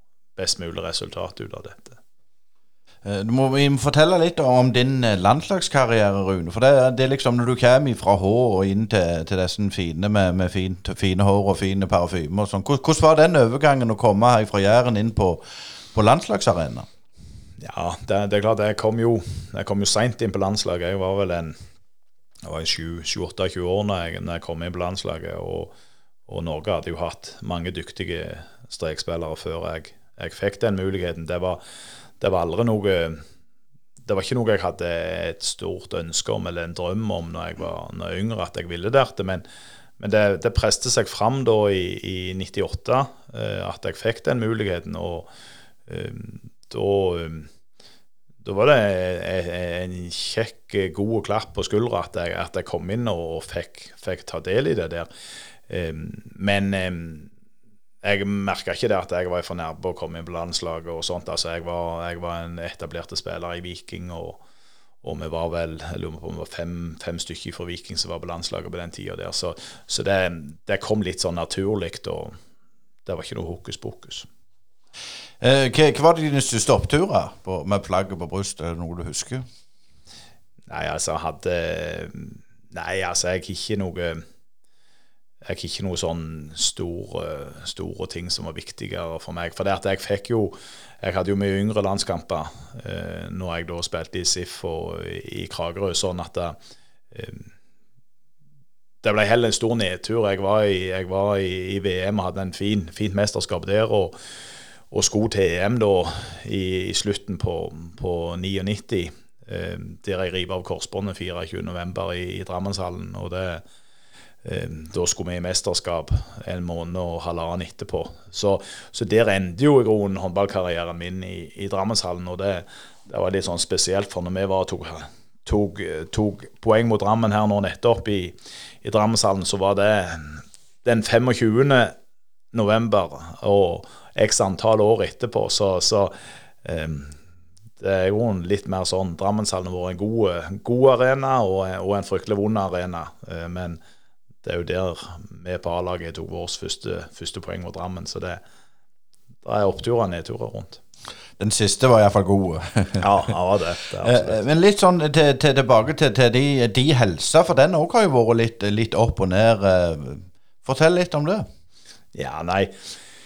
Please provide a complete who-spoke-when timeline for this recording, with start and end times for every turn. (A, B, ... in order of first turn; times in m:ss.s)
0:00.4-0:02.0 A
0:03.0-0:15.4 B
0:15.9-0:16.9 B
0:17.6-0:21.6 A
0:22.4-0:25.7 A
0:26.3-0:31.6 A
0:32.2-0:33.2 A
0:34.0-0:39.4 A
0:40.0-0:45.3 A
0:45.9-0:47.5 A
0:48.4-0:55.1 A
0:55.7-0:57.3 A
0:58.0-1:04.4 A
1:05.0-1:12.3 A
1:13.0-1:14.3 A
1:15.4-1:19.4 B
1:20.7-1:24.2 A
1:25.4-1:36.6 A
1:37.1-1:37.5 A
1:39.0-1:44.2 A
1:44.9-1:53.6 A
1:54.4-2:11.9 A
2:12.5-2:17.2 A
2:17.8-2:23.8 A
2:24.4-2:28.4 A
2:29.4-2:30.8 A
2:31.4-2:33.0 B
2:33.0-2:34.4 A
2:34.0-2:41.5 B
2:42.1-2:42.7 A